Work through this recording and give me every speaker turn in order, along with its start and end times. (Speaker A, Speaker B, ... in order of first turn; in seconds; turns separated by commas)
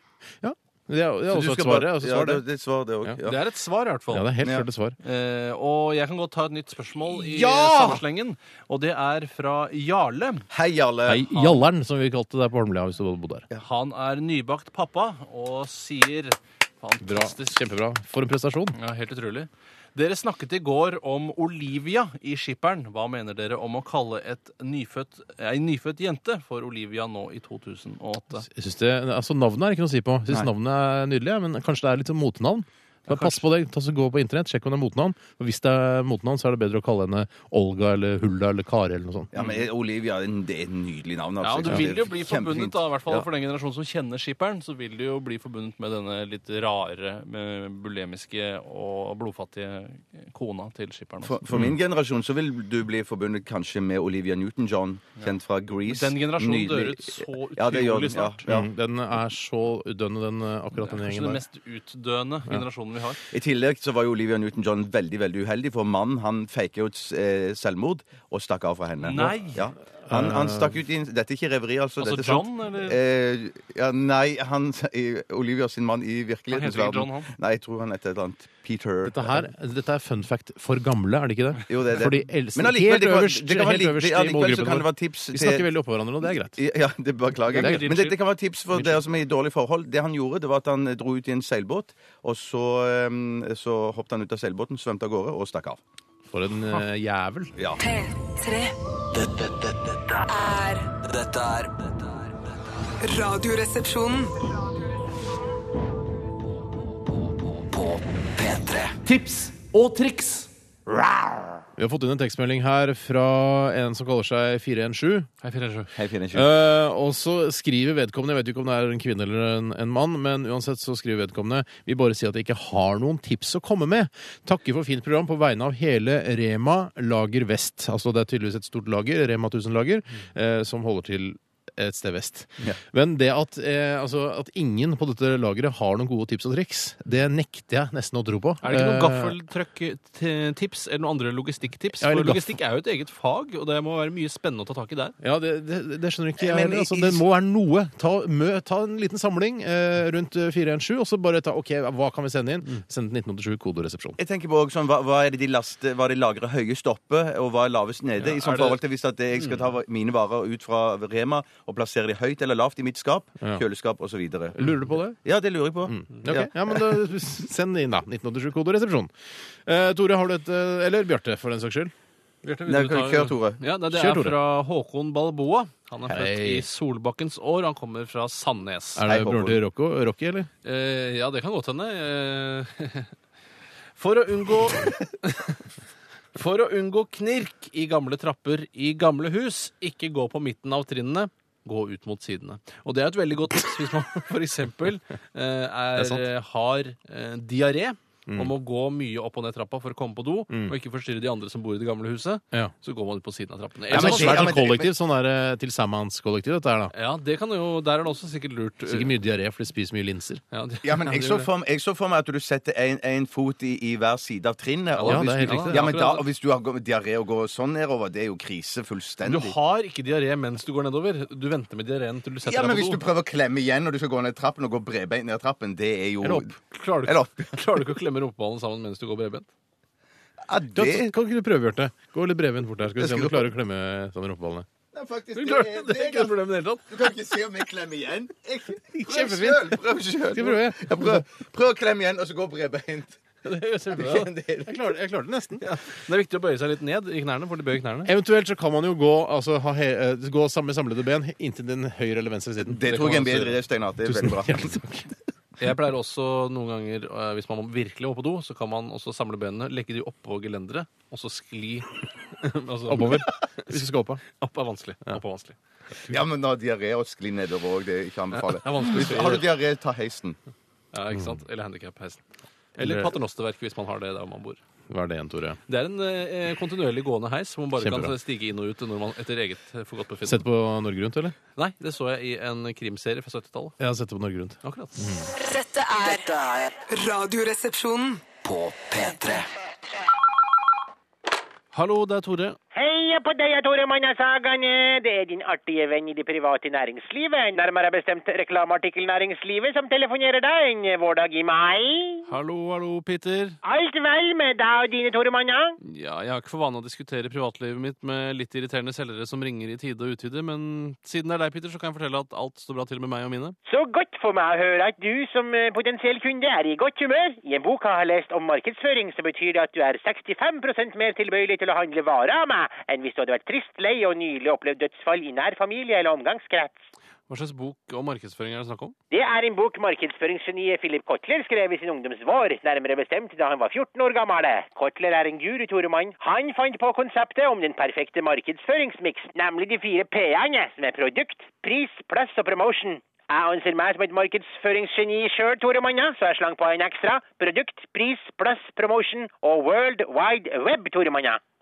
Speaker A: 0.4-2.4, Speaker B: 1.3-3.4, Speaker C: 3.2-4.3, Speaker A: 4.1-5.0, Speaker B: 4.4-4.7, Speaker C: 5.0-10.4, Speaker A: 7.1-8.0, Speaker B: 10.5-11.3, Speaker A: 11.1-13.4, Speaker C: 11.3-11.7, Speaker C: 13.6-17.6, Speaker A: 17.0-18.8, Speaker C: 18.7-28.5, Speaker A: 28.4-39.3, Speaker C: 33.1-33.4, Speaker B: 39.3-43.3, Speaker C: 39.4-39.6, Speaker C: 41.4-51.4, Speaker B: 51.2-58.7, Speaker C: 55.9-58.4, Speaker A: 58.5-61.4, Speaker C: 60.8-63.2, Speaker B: 63.3-79.5, Speaker C: 69.0-69.7, Speaker A: 70.1-70.7, Speaker C: 72.0-73.0, Speaker C: 76.5-77.3, Speaker A: 79.0-86.6, Speaker B: 81.7-85.7, Speaker B: 86.2-95.8, Speaker C: 87.5-88.2, Speaker A: 87.6-87.9, Speaker A: 96.3-97.5, Speaker D: 97.8-98.7, Speaker E: 99.1-100.3, Speaker D: 100.3-100.9, Speaker E: 101.0-102.6, Speaker D: 103.0-104.3, Speaker E: 107.3-109.0, Speaker C: 109.0-110.5, Speaker A: 111.8-115.3, Speaker C: 115.4-115.9, Speaker B: 115.9-116.5, Speaker A: 116.3-139.3, Speaker C: 138.6-145.2, Speaker A: 142.0-142.4, Speaker A: 145.2-154.2, Speaker B: 146.4-147.2, Speaker B: 154.2-167.0, Speaker C: 158.3-158.8, Speaker A: 164.6-165.2, Speaker A: 165.8-169.1, Speaker A: 169.6-171.9, Speaker C: 172.4-179.0, Speaker B: 172.7-173.6, Speaker A: 173.9-174.4, Speaker A: 176.1-176.6, Speaker A: 179.0-180.5, Speaker B: 179.0-179.6, Speaker C: 180.6-183.1, Speaker C: 184.0-185.6, Speaker C: 186.3-204.6, Speaker A: 195.9-196.2, Speaker B: 203.9-204.9, Speaker A: 203.9-206.9, Speaker C: 206.9-209.2, Speaker A: 208.9-210.4, Speaker C: 210.5-211.5, Speaker B: 210.8-219.6, Speaker C: 214.9-216.2, Speaker A: 215.1-215.9, Speaker C: 219.2-223.0, Speaker B: 222.4-227.8, Speaker C: 226.3-229.5, Speaker B: 230.4-231.1, Speaker A: 230.7-234.7, Speaker B: 232.9-233.5, Speaker B: 234.9-243.2, Speaker C: 235.3-236.9, Speaker A: 239.0-239.8, Speaker A: 240.3-241.2, Speaker C: 243.4-244.3, Speaker B: 243.9-244.9, Speaker A: 244.7-245.6, Speaker C: 245.6-248.1, Speaker A: 248.1-252.8, Speaker B: 252.6-254.8, Speaker C: 252.8-253.6, Speaker A: 254.0-255.1, Speaker C: 255.6-261.9, Speaker C: 262.4-265.6, Speaker A: 262.9-264.2, Speaker B: 266.1-270.4, Speaker C: 268.3-269.5, Speaker C: 270.9-272.2, Speaker A: 271.1-271.4, Speaker C: 272.7-274.6, Speaker A: 272.8-273.1, Speaker A: 274.9-275.6, Speaker C: 275.7-280.4, Speaker A: 277.8-278.1, Speaker A: 280.2-281.4, Speaker C: 281.6-283.8, Speaker A: 283.8-285.3, Speaker C: 284.6-285.0, Speaker D: 285.5-286.2, Speaker E: 285.9-286.8, Speaker D: 286.9-288.2, Speaker E: 288.3-289.5, Speaker C: 291.7-292.6, Speaker F: 292.7-302.2, Speaker C: 302.3-303.6, Speaker F: 303.6-305.8, Speaker C: 305.8-313.6, Speaker F: 313.6-326.9, Speaker C: 327.3-328.9, Speaker F: 329.1-351.4